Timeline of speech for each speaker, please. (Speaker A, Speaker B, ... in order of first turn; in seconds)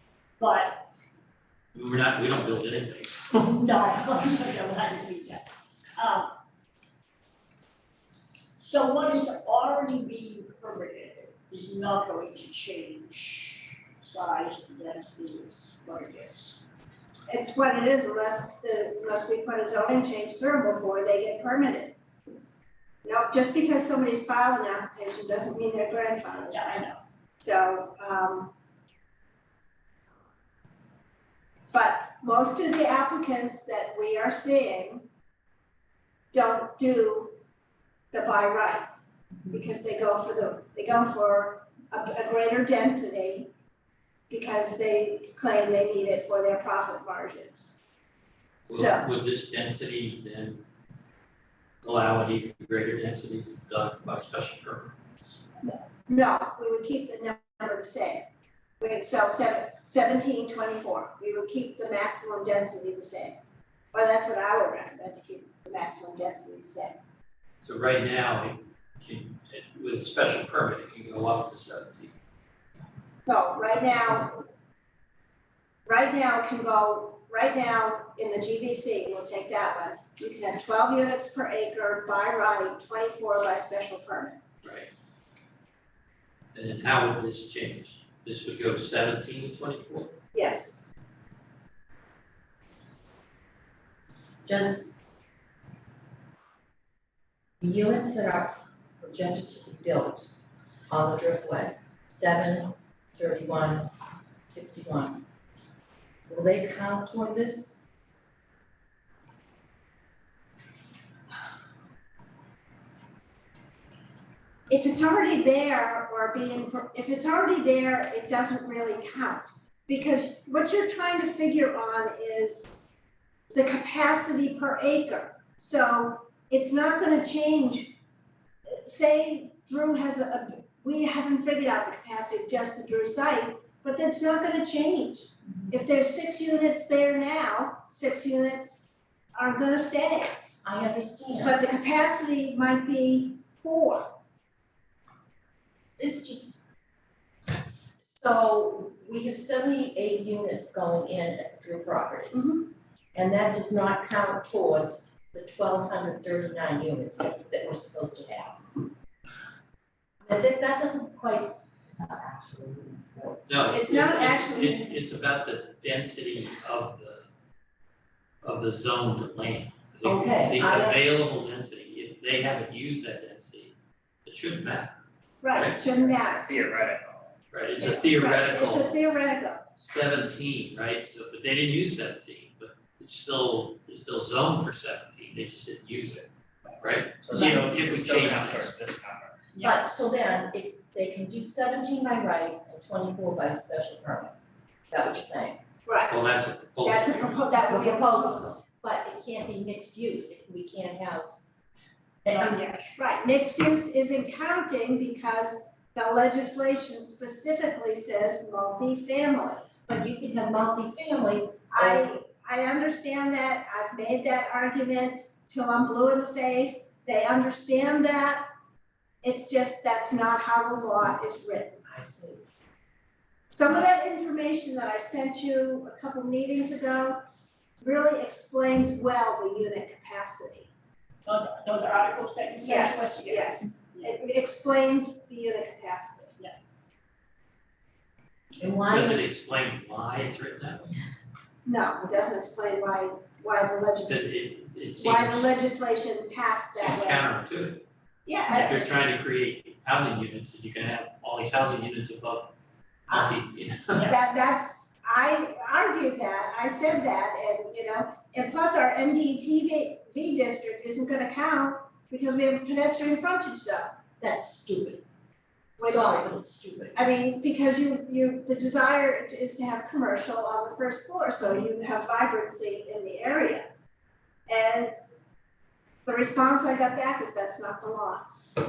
Speaker A: 0.4-0.8, 3.5-6.3, 8.6-16.6, 26.5-27.0, 202.3-202.9, 231.2-234.1
Speaker B: 1.7-3.5, 48.7-50.6, 51.8-55.4, 67.6-72.1, 84.6-84.9, 86.5-90.1, 163.5-167.3, 168.4-173.7, 174.3-174.9, 175.5-175.8, 177.5-179.0, 179.8-186.3, 186.8-188.8, 196.1-197.4, 238.9-240.9, 244.1-245.5, 246.7-247.8, 248.5-252.6, 253.1-254.1
Speaker C: 17.3-22.0, 23.0-26.6, 27.4-28.5, 31.7-35.1, 36.3-37.4, 38.1-38.9, 39.5-43.5, 44.3-47.7, 48.7-49.1, 56.1-58.3, 58.8-63.4, 63.9-67.0, 73.3-74.3, 75.9-84.4, 90.3-90.8, 114.7-122.8, 123.5-128.0, 128.7-140.3, 141.4-144.1, 152.3-152.7, 163.7-165.0, 175.4-176.5, 177.8-179.7, 195.9-196.2, 196.8-198.6, 202.9-209.7, 211.7-218.5, 219.2-221.8, 223.5-227.2, 227.8-230.7, 232.6-236.3, 241.7-244.3, 245.0-247.3, 248.3-248.9, 254.1-263.9, 265.8-266.3, 266.9-273.7, 274.5-274.9, 276.1-278.2
Speaker D: 94.5-95.0, 97.6-100.3, 100.9-103.9, 104.5-105.2, 106.3-107.8, 140.6-141.6, 146.0-146.6, 148.1-152.4, 153.1-158.8, 160.3-163.6, 170.0-171.0, 189.6-194.3, 194.9-195.6, 197.7-201.3, 202.2-202.6, 209.9-212.1, 221.9-222.5, 238.6-239.2, 264.2-265.0, 265.8-267.0
Speaker E: 176.0-177.3, 187.2-189.6